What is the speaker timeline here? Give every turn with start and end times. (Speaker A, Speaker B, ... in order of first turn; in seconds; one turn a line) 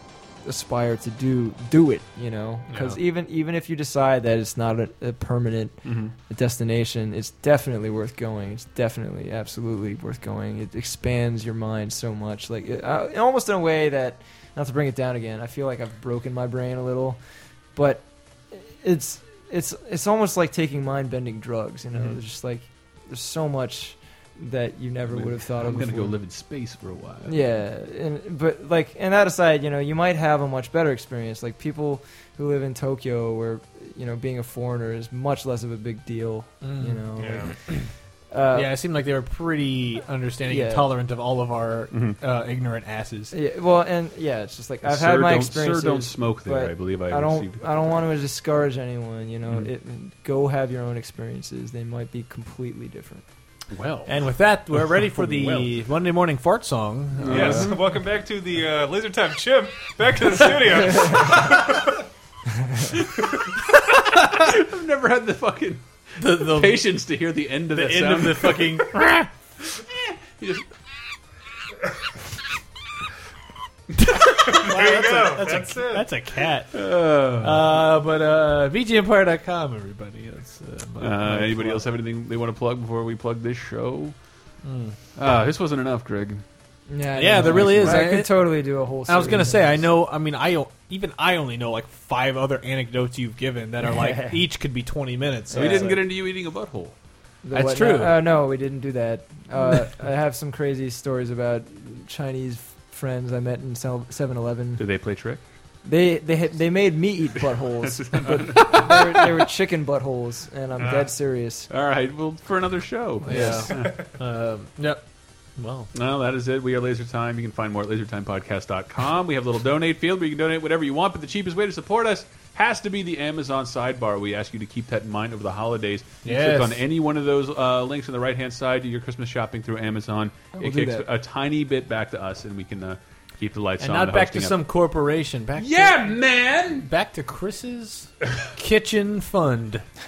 Speaker A: 0.4-17.2
Speaker B: 2.7-3.0
Speaker C: 5.8-6.1
Speaker A: 17.8-26.2
Speaker C: 25.1-27.4
Speaker A: 27.3-37.8
Speaker B: 36.6-37.9
Speaker D: 37.2-37.5
Speaker A: 38.3-38.8
Speaker B: 38.5-43.4
Speaker A: 40.5-40.9
Speaker C: 41.9-42.2
Speaker A: 43.3-53.2
Speaker C: 44.8-48.0
Speaker C: 53.7-54.2
Speaker B: 54.1-57.7
Speaker C: 54.8-55.7
Speaker C: 57.2-57.9
Speaker D: 57.3-62.0
Speaker C: 63.7-68.9
Speaker B: 66.2-66.8
Speaker B: 67.7-69.3
Speaker C: 69.7-70.7
Speaker B: 74.2-81.8
Speaker D: 74.5-76.1
Speaker C: 76.7-77.7
Speaker C: 81.0-84.5
Speaker B: 84.6-85.0
Speaker C: 85.2-86.5
Speaker A: 86.9-89.9
Speaker B: 87.2-96.0
Speaker C: 87.4-88.2
Speaker A: 93.8-94.4
Speaker A: 95.5-96.0
Speaker C: 95.5-97.0
Speaker A: 97.4-104.8
Speaker B: 97.5-98.2
Speaker C: 104.8-105.4
Speaker A: 105.8-111.7
Speaker C: 107.8-109.3
Speaker D: 110.8-111.1
Speaker C: 111.7-114.0
Speaker A: 113.2-113.8
Speaker B: 113.3-115.0
Speaker B: 115.6-115.9
Speaker C: 115.9-134.6
Speaker B: 126.2-126.8
Speaker A: 130.6-131.1
Speaker B: 133.8-136.2
Speaker C: 135.6-136.9
Speaker B: 136.7-139.9